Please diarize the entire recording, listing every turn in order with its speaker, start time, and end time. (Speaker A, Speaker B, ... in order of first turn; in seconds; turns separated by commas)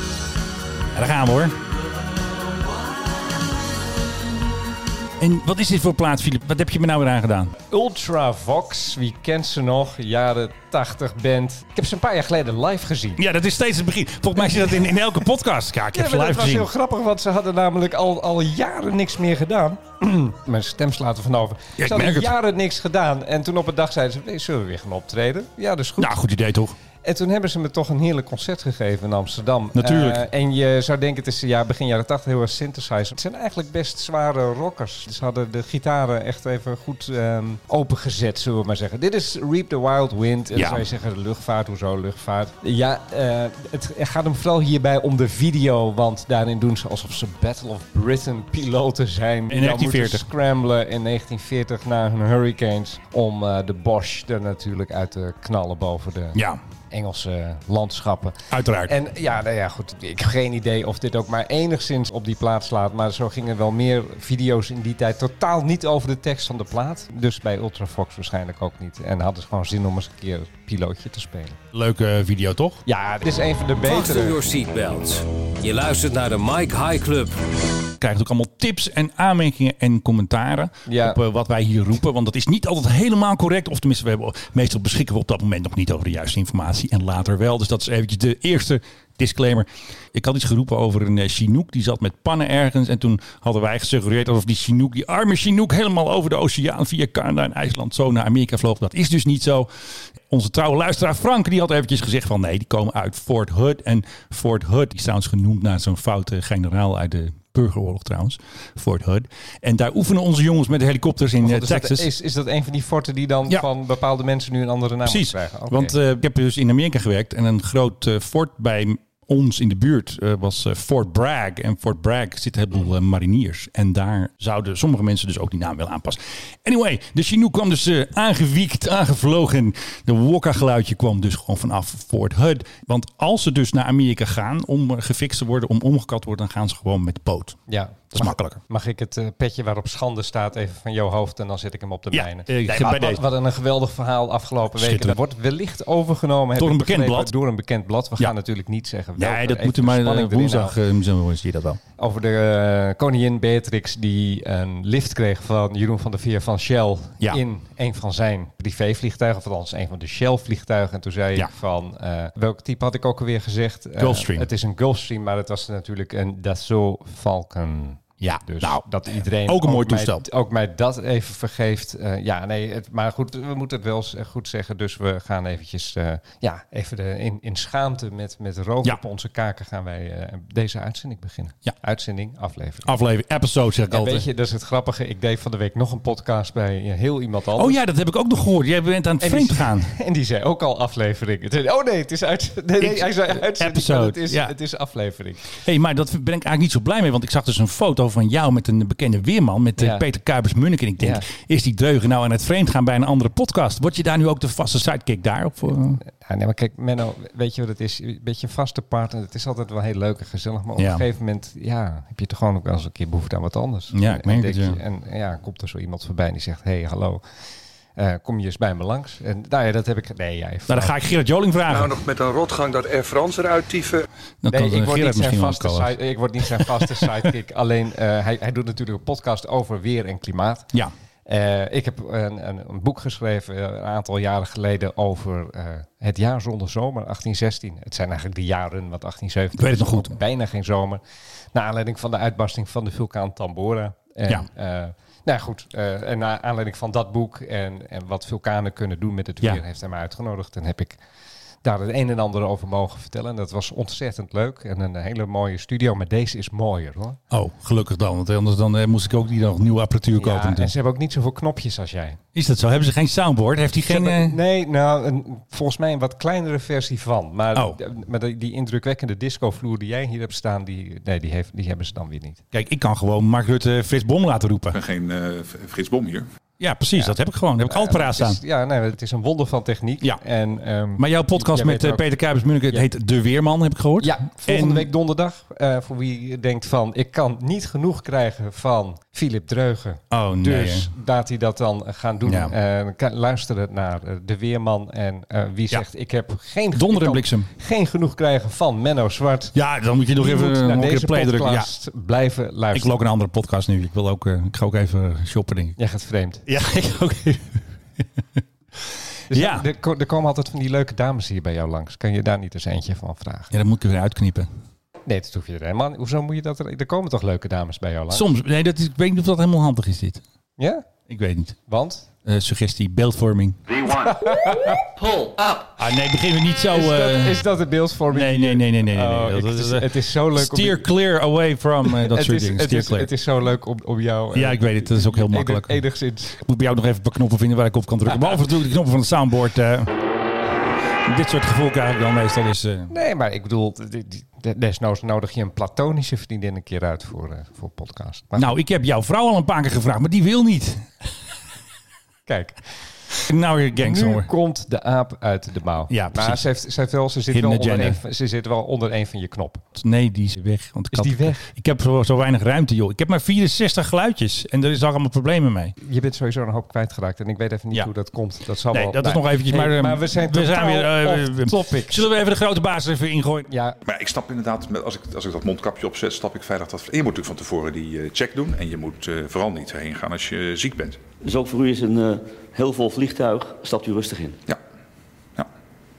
Speaker A: 0.9-1.6, Speaker A: 5.2-7.5, Speaker B: 7.7-13.2, Speaker A: 13.2-16.7, Speaker B: 14.4-15.1, Speaker B: 15.9-26.2, Speaker A: 21.8-22.3, Speaker A: 26.0-26.7, Speaker B: 27.0-56.4, Speaker A: 29.7-30.2, Speaker A: 40.5-40.8, Speaker A: 49.5-50.2, Speaker A: 56.3-56.6, Speaker B: 56.9-71.6, Speaker A: 58.5-58.9, Speaker A: 71.7-72.8, Speaker B: 72.8-74.4, Speaker C: 73.8-77.4, Speaker A: 78.0-99.7, Speaker B: 80.9-81.2, Speaker A: 100.3-112.1, Speaker B: 111.4-116.0, Speaker A: 115.0-137.6, Speaker B: 137.7-150.8, Speaker A: 138.1-138.6, Speaker A: 142.1-143.2, Speaker A: 144.8-145.2, Speaker A: 146.6-147.3, Speaker A: 149.2-151.8, Speaker B: 152.0-182.9, Speaker A: 164.0-164.5, Speaker A: 168.2-168.9, Speaker A: 169.4-170.2, Speaker A: 182.8-184.2, Speaker B: 183.9-187.8, Speaker A: 187.6-189.9, Speaker B: 189.2-195.6, Speaker A: 192.8-194.5, Speaker A: 195.6-206.0, Speaker B: 199.8-200.0, Speaker B: 201.0-201.2, Speaker B: 206.0-217.2, Speaker A: 210.8-211.0, Speaker A: 213.9-214.8, Speaker B: 217.9-220.9, Speaker A: 220.7-222.0, Speaker D: 221.7-224.1, Speaker A: 224.4-225.9, Speaker B: 224.5-230.7, Speaker A: 226.5-227.0, Speaker B: 231.3-241.0, Speaker A: 239.6-240.1, Speaker B: 241.5-251.0, Speaker B: 251.6-257.2, Speaker A: 257.3-260.7, Speaker B: 260.1-262.2, Speaker A: 262.3-264.4, Speaker B: 263.9-272.4, Speaker A: 272.5-274.8, Speaker E: 274.7-276.2, Speaker A: 276.6-278.4, Speaker B: 276.9-282.1, Speaker A: 281.0-284.9, Speaker B: 284.0-299.5, Speaker A: 290.1-290.9, Speaker A: 292.2-292.5, Speaker A: 296.7-297.5, Speaker A: 299.5-301.7, Speaker B: 300.1-303.0, Speaker A: 302.7-305.8, Speaker B: 305.8-306.4, Speaker A: 306.4-308.4, Speaker B: 309.3-313.5, Speaker A: 309.3-309.6, Speaker A: 313.5-314.5, Speaker B: 315.1-318.2, Speaker A: 318.1-320.2, Speaker B: 320.6-320.8, Speaker A: 321.1-321.6, Speaker B: 321.7-322.1, Speaker A: 322.2-323.6, Speaker B: 323.8-324.8, Speaker A: 325.8-327.4, Speaker B: 326.7-330.9, Speaker A: 328.1-333.1, Speaker B: 331.8-336.3, Speaker A: 334.3-339.9, Speaker B: 338.1-338.4, Speaker A: 341.1-342.9, Speaker B: 342.9-348.5, Speaker A: 348.4-350.9, Speaker B: 352.2-352.6, Speaker A: 353.2-354.3, Speaker B: 353.8-359.6, Speaker A: 355.9-356.4, Speaker A: 357.3-358.0, Speaker A: 359.8-365.7, Speaker B: 360.9-361.5, Speaker B: 365.8-372.1, Speaker A: 368.7-373.5, Speaker B: 373.5-373.8, Speaker E: 373.9-381.0, Speaker F: 381.2-384.4